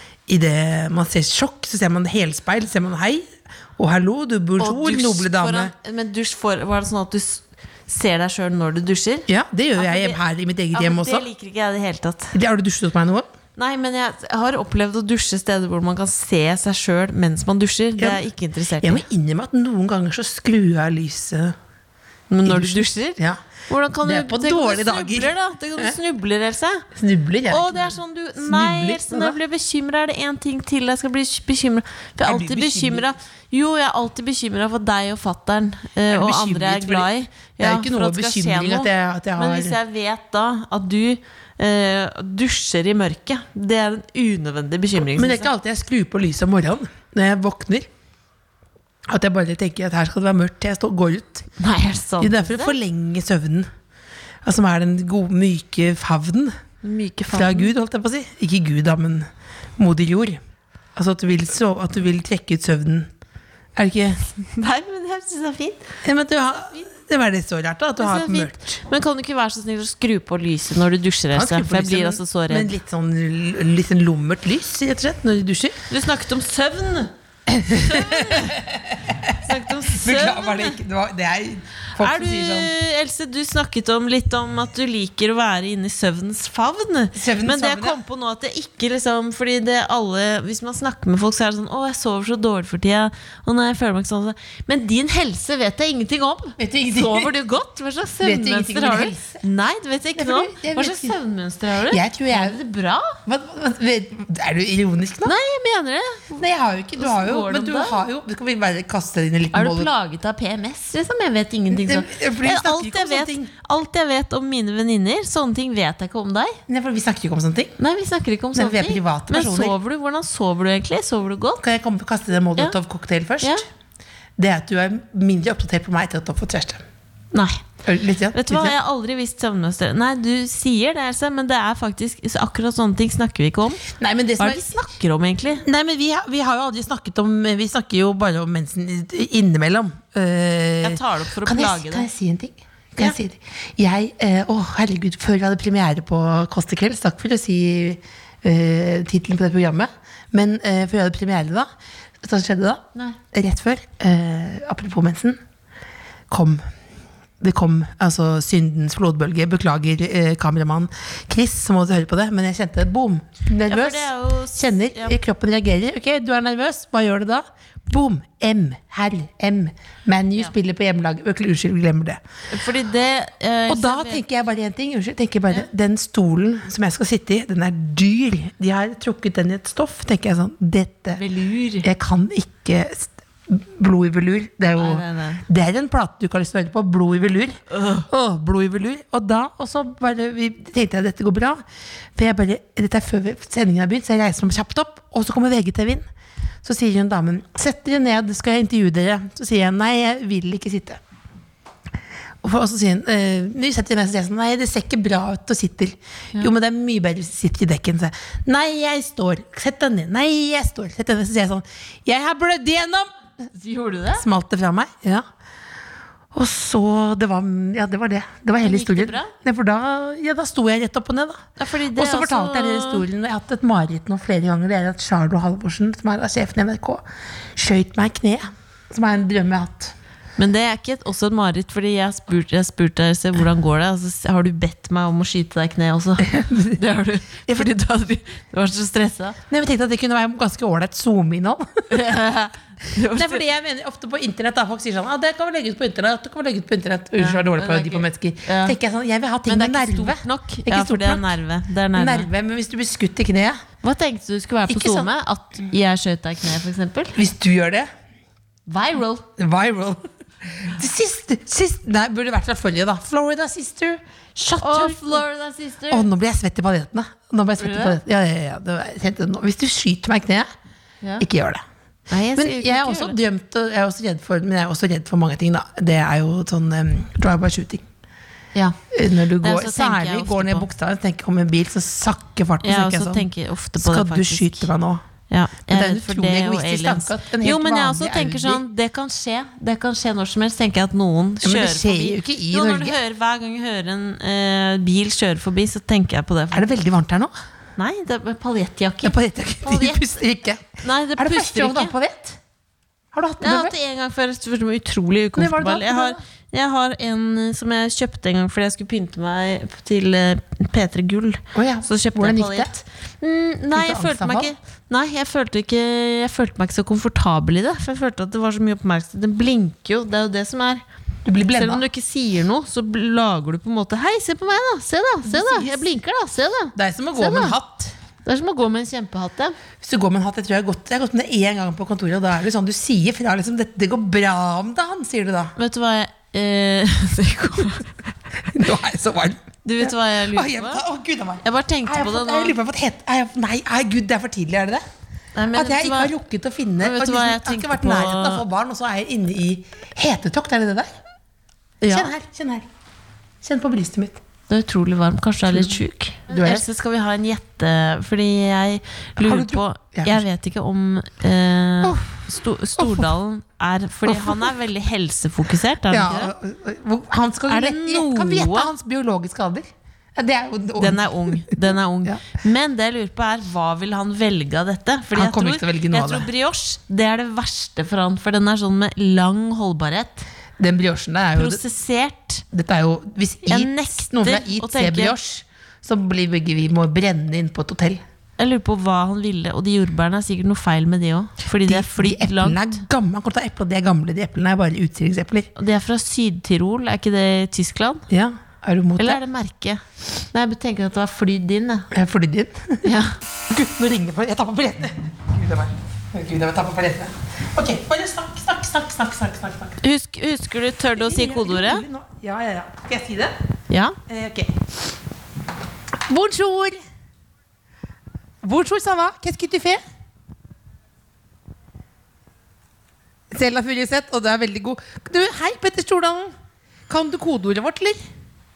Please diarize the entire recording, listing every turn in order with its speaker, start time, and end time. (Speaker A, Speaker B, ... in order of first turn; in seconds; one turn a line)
Speaker A: 0.3-3.2
Speaker A: 3.8-5.7
Speaker B: 4.6-10.2
Speaker A: 9.3-11.2
Speaker B: 10.7-12.3
Speaker A: 12.3-13.3
Speaker B: 13.6-19.0
Speaker A: 18.8-21.6
Speaker B: 22.3-26.9
Speaker A: 22.4-23.4
Speaker A: 24.0-25.9
Speaker A: 26.9-29.4
Speaker B: 27.5-45.5
Speaker A: 32.2-33.1
Speaker A: 36.1-37.1
Speaker A: 37.6-39.8
Speaker A: 45.2-47.9
Speaker A: 49.1-51.5
Speaker B: 51.6-52.8
Speaker A: 52.2-53.7
Speaker A: 54.5-56.6
Speaker B: 56.8-57.7
Speaker A: 57.3-60.4
Speaker A: 61.0-63.1
Speaker A: 63.8-64.3
Speaker B: 64.5-66.0
Speaker A: 66.0-68.7
Speaker B: 68.0-72.7
Speaker A: 71.3-75.8
Speaker B: 75.9-77.1
Speaker A: 77.5-82.7
Speaker B: 77.7-78.6
Speaker B: 79.4-80.8
Speaker B: 82.0-103.2
Speaker A: 87.2-88.0
Speaker A: 96.6-97.3
Speaker A: 98.2-99.4
Speaker A: 100.2-101.2
Speaker A: 101.9-102.6
Speaker A: 103.2-105.3
Speaker B: 105.2-106.5
Speaker A: 106.4-109.9
Speaker B: 107.0-108.0
Speaker B: 109.5-116.6
Speaker A: 111.7-113.5
Speaker A: 116.7-117.7
Speaker B: 117.8-121.6
Speaker A: 118.5-119.7
Speaker A: 121.6-123.6
Speaker A: 124.4-126.8
Speaker B: 127.3-127.6
Speaker A: 127.9-128.8
Speaker B: 128.3-133.8
Speaker A: 133.9-134.7
Speaker B: 134.4-135.7
Speaker A: 135.6-151.7
Speaker B: 140.8-142.1
Speaker A: 152.2-155.4
Speaker A: 156.3-156.7
Speaker A: 157.4-172.2
Speaker B: 163.7-165.2
Speaker B: 172.5-174.2
Speaker A: 173.7-181.2
Speaker B: 181.2-181.9
Speaker A: 181.8-191.6
Speaker B: 184.8-185.4
Speaker B: 187.7-188.1
Speaker A: 192.2-196.1
Speaker A: 196.6-201.0
Speaker A: 202.4-213.1
Speaker B: 213.5-214.2
Speaker A: 214.2-215.2
Speaker A: 216.3-227.0
Speaker B: 218.6-219.3
Speaker B: 221.6-223.1
Speaker A: 227.6-229.9
Speaker B: 230.4-239.4
Speaker A: 236.3-236.8
Speaker A: 239.5-241.9
Speaker B: 241.9-243.4
Speaker A: 243.1-251.3
Speaker B: 247.2-248.8
Speaker B: 249.5-252.3
Speaker A: 251.9-253.6
Speaker B: 253.8-257.2
Speaker A: 254.7-255.1
Speaker A: 257.2-257.9
Speaker B: 258.7-259.2
Speaker A: 259.4-265.2
Speaker B: 264.6-266.1
Speaker A: 265.9-270.5
Speaker B: 267.6-268.0
Speaker A: 271.2-271.6
Speaker B: 272.1-273.1
Speaker A: 272.4-277.9
Speaker A: 278.9-283.3
Speaker B: 279.4-280.6
Speaker B: 282.6-284.7
Speaker A: 283.8-285.0
Speaker B: 285.3-296.8
Speaker A: 285.7-288.6
Speaker A: 291.4-293.0
Speaker A: 296.5-297.3
Speaker B: 297.8-300.2
Speaker A: 299.0-302.4
Speaker B: 300.8-301.9
Speaker A: 303.1-303.7
Speaker B: 303.4-320.8
Speaker A: 305.4-306.2
Speaker A: 311.5-312.7
Speaker A: 313.7-314.5
Speaker A: 321.2-321.8
Speaker B: 321.5-327.6
Speaker A: 325.2-325.8
Speaker A: 326.8-327.9
Speaker B: 328.2-329.6
Speaker A: 329.8-335.5
Speaker B: 335.6-338.0
Speaker A: 338.5-344.8
Speaker B: 339.6-340.8
Speaker B: 341.4-342.6
Speaker B: 345.4-346.1
Speaker A: 345.6-350.9
Speaker B: 346.8-348.4
Speaker B: 351.8-352.1
Speaker A: 351.8-352.7
Speaker A: 353.4-354.2
Speaker B: 354.5-366.3
Speaker A: 355.5-355.8
Speaker A: 356.3-356.6
Speaker A: 359.2-360.2
Speaker A: 361.8-362.2
Speaker A: 362.8-363.1
Speaker A: 364.1-364.5
Speaker A: 365.9-372.2
Speaker B: 367.5-368.7
Speaker B: 370.8-380.3
Speaker A: 375.1-376.3
Speaker A: 380.6-381.6
Speaker B: 381.4-382.4
Speaker A: 382.5-388.0
Speaker B: 383.5-385.1
Speaker B: 388.4-392.7
Speaker A: 391.6-395.5
Speaker B: 395.6-398.1
Speaker A: 398.1-399.2
Speaker B: 399.0-401.9
Speaker A: 401.9-402.9
Speaker B: 402.8-403.1
Speaker A: 403.5-409.8
Speaker B: 409.8-411.8
Speaker A: 411.0-413.3
Speaker B: 413.7-414.0
Speaker A: 414.1-414.6
Speaker A: 416.1-416.8
Speaker A: 418.4-419.8
Speaker A: 423.3-426.4
Speaker A: 426.9-428.0